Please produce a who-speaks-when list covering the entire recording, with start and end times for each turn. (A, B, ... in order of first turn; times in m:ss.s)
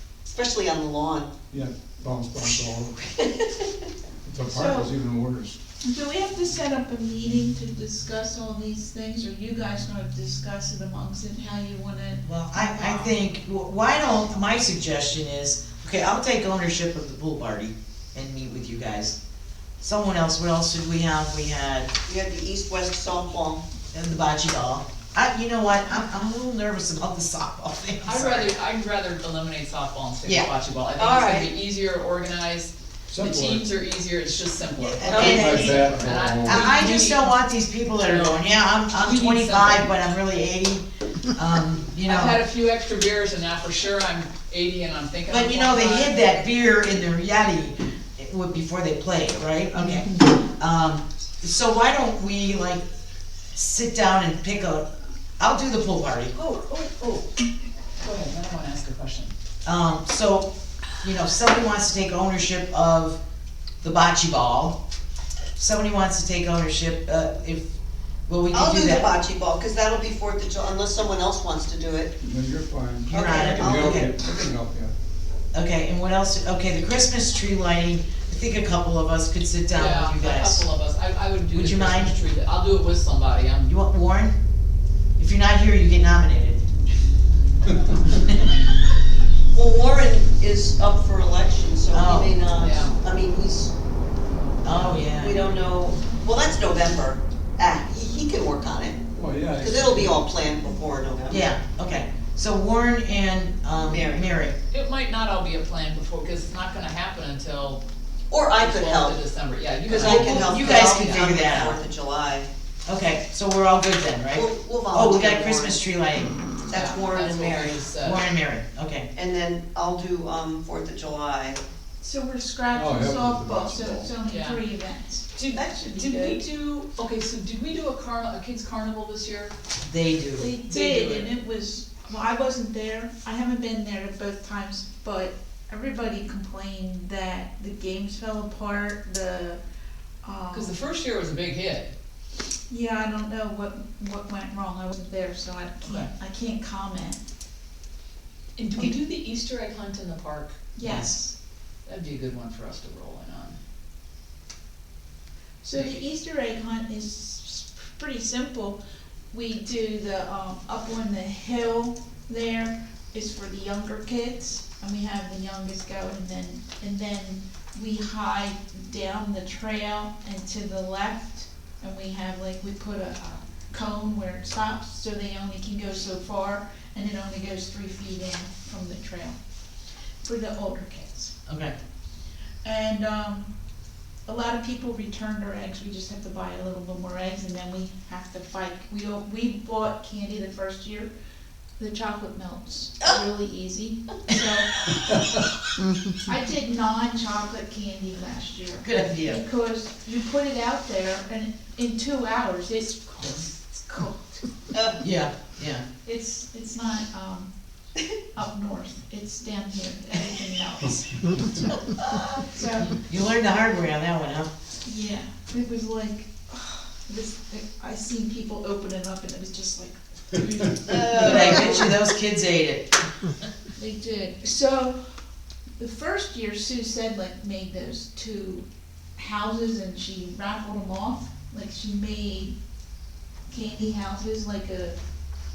0:00.3-0:01.3 A
0:01.5-0:03.0 B
0:02.4-0:03.7 A
0:04.2-0:05.6 B
0:04.5-0:04.9 C
0:05.8-0:13.1 C
0:12.2-0:19.2 D
0:19.8-0:21.9 D
0:22.1-0:23.6 A
0:23.9-0:28.5 D
0:28.0-0:37.4 E
0:30.2-0:30.5 D
0:31.0-0:31.5 A
0:33.1-0:33.7 B
0:34.8-0:42.4 D
0:35.0-0:36.0 A
0:35.0-0:36.7 B
0:38.0-0:39.9 E
0:42.0-0:46.3 E
0:45.3-0:52.8 D
0:49.8-0:50.1 E
0:53.5-0:54.9 D
0:55.4-0:56.3 D
0:56.4-0:57.3 E
0:58.0-0:59.3 E
0:59.6-1:03.2 D
1:03.8-1:04.8 D
1:05.6-1:07.7 D
1:08.3-1:09.1 D
1:08.5-1:12.2 A
1:12.2-1:14.9 B
1:13.1-1:14.1 D
1:13.1-1:14.2 A
1:15.5-1:20.7 D
1:19.7-1:23.7 E
1:21.5-1:22.2 D
1:23.7-1:24.4 D
1:25.2-1:26.6 D
1:29.5-1:33.7 A
1:31.9-1:32.3 D
1:32.6-1:33.0 E
1:34.6-1:35.4 D
1:35.2-1:39.0 A
1:39.2-1:40.2 B
1:39.6-1:41.5 A
1:41.3-1:44.6 D
1:43.8-1:44.3 A
1:44.7-1:47.8 E
1:48.3-1:49.2 A
1:48.6-1:51.3 E
1:49.8-1:52.5 A
1:50.0-1:51.8 D
1:52.9-1:56.4 D
1:54.3-1:55.8 A
1:56.7-1:57.8 A
1:56.7-1:58.2 E
1:58.0-1:59.1 D
1:59.1-2:01.6 A
2:02.0-2:06.4 C
2:02.7-2:04.1 B
2:04.2-2:04.6 E
2:05.4-2:09.5 E
2:09.8-2:10.5 D
2:10.4-2:19.6 C
2:10.7-2:11.3 E
2:20.2-2:20.7 C
2:20.5-2:21.9 E
2:22.7-2:27.2 C
2:25.8-2:26.1 E
2:28.6-2:30.6 E
2:30.8-2:31.3 C
2:30.8-2:31.3 D
2:31.9-2:33.6 E
2:35.6-2:38.8 C
2:39.3-2:59.4 C
3:00.2-3:01.4 C
3:01.5-3:01.7 D
3:02.6-3:03.5 C
3:04.3-3:11.1 C
3:11.8-3:14.9 C
3:16.2-3:24.4 C
3:18.8-3:19.4 D
3:23.2-3:23.5 E
3:25.0-3:25.8 D
3:26.0-3:27.5 C
3:28.3-3:31.7 C
3:32.4-3:33.0 C
3:32.9-3:34.5 D
3:34.8-3:41.9 C
3:40.9-3:41.9 A
3:40.9-3:42.9 D
3:43.8-3:45.0 C
3:45.8-3:48.7 C
3:49.2-3:52.6 C
3:53.5-3:55.0 C